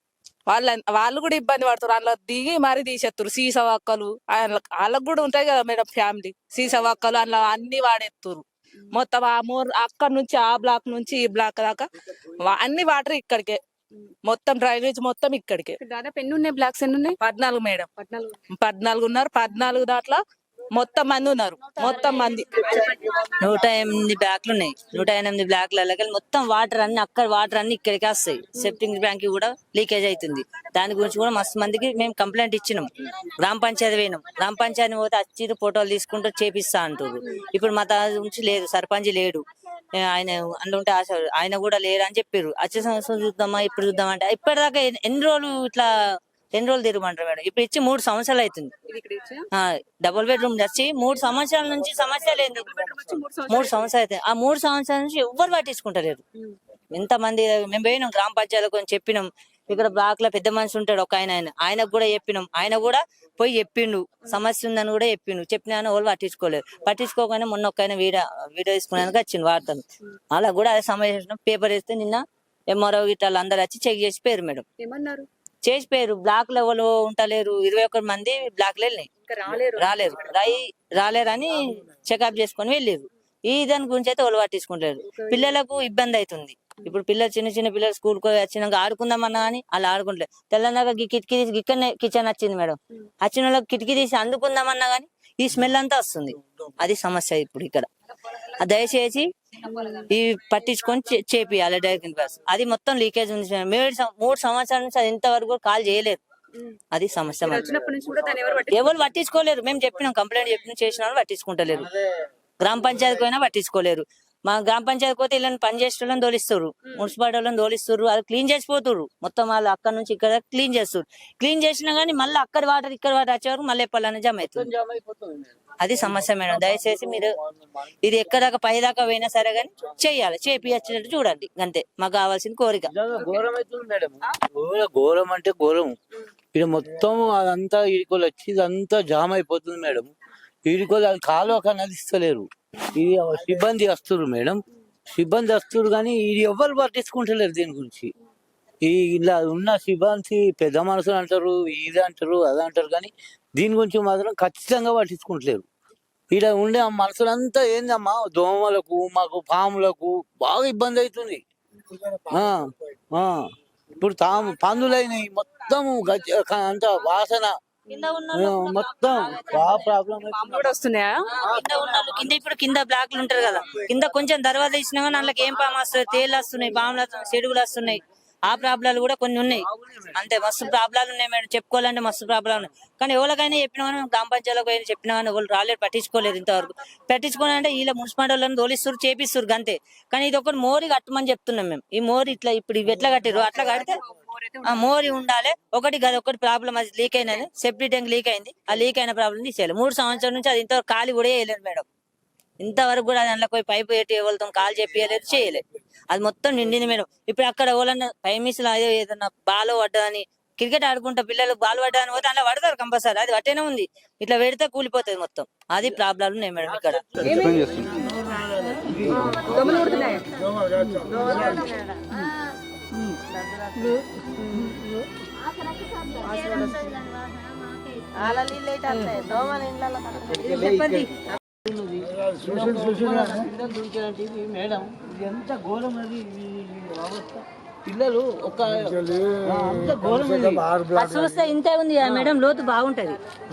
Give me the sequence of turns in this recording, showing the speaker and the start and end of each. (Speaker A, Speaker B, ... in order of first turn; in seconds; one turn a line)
Speaker A: 0.5-11.9
Speaker A: 12.4-13.6
Speaker A: 14.2-15.8
Speaker B: 15.8-17.2
Speaker A: 17.2-17.9
Speaker B: 17.9-18.4
Speaker A: 18.5-20.2
Speaker A: 20.7-22.9
Speaker C: 23.2-39.4
Speaker C: 40.0-45.9
Speaker C: 46.5-48.7
Speaker B: 48.9-49.5
Speaker C: 49.5-52.8
Speaker B: 52.4-53.9
Speaker C: 53.5-56.2
Speaker C: 56.9-74.6
Speaker B: 74.8-75.3
Speaker C: 75.6-79.1
Speaker B: 79.3-80.3
Speaker C: 79.8-97.9
Speaker B: 85.1-85.5
Speaker C: 98.6-99.3
Speaker B: 99.6-100.1
Speaker C: 100.1-106.2
Speaker C: 106.9-107.7
Speaker B: 107.3-108.9
Speaker C: 108.7-111.9
Speaker C: 112.6-124.7
Speaker D: 124.4-127.3
Speaker C: 125.8-127.3
Speaker C: 128.0-132.9
Speaker D: 132.9-135.9
Speaker D: 136.5-140.1
Speaker D: 140.7-144.6
Speaker D: 145.1-148.1
Speaker D: 148.8-155.7
Speaker D: 156.3-161.4
Speaker D: 162.1-163.5
Speaker D: 164.0-167.5
Speaker C: 167.9-169.9
Speaker D: 168.3-170.7
Speaker B: 170.2-171.2
Speaker C: 171.4-194.0
Speaker D: 179.5-180.2
Speaker B: 193.3-194.9
Speaker C: 194.6-201.8
Speaker C: 202.6-217.0
Speaker D: 216.7-219.6
Speaker B: 217.2-217.8
Speaker B: 219.4-220.2
Speaker D: 220.9-221.6
Speaker C: 226.2-227.0
Speaker C: 228.2-229.4
Speaker C: 230.4-231.1
Speaker D: 230.4-231.1
Speaker D: 231.6-240.8
Speaker C: 240.9-243.2